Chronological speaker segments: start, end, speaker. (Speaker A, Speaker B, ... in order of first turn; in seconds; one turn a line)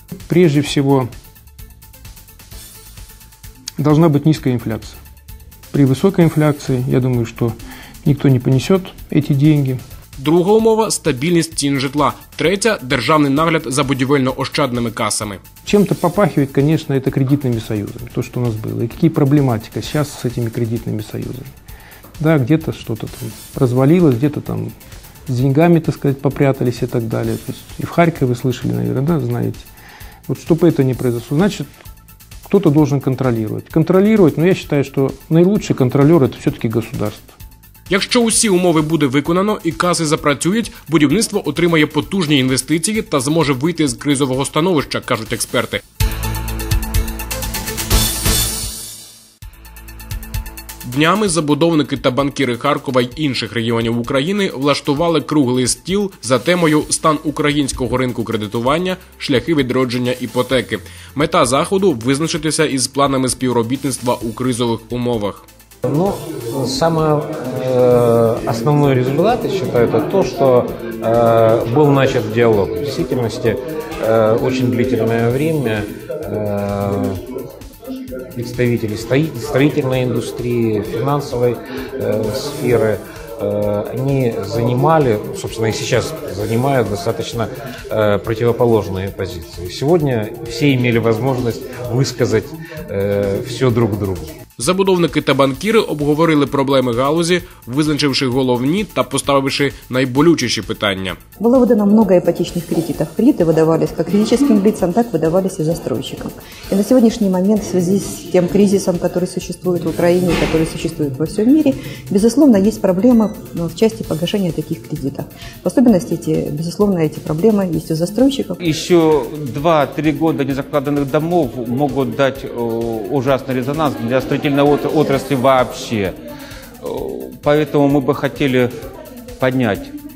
Speaker A: 0.3-1.1
Speaker A: 3.8-5.0
Speaker A: 5.7-9.8
Speaker B: 10.2-15.4
Speaker A: 15.7-21.5
Speaker A: 22.2-24.7
Speaker A: 25.3-29.6
Speaker A: 30.3-31.7
Speaker A: 32.5-37.3
Speaker B: 37.9-45.8
Speaker B: 50.8-65.5
Speaker C: 65.8-77.2
Speaker C: 78.3-94.3
Speaker B: 94.6-101.2
Speaker D: 101.4-118.6
Speaker E: 118.6-126.1
Speaker E: 126.8-128.7
Speaker E: 129.4-129.9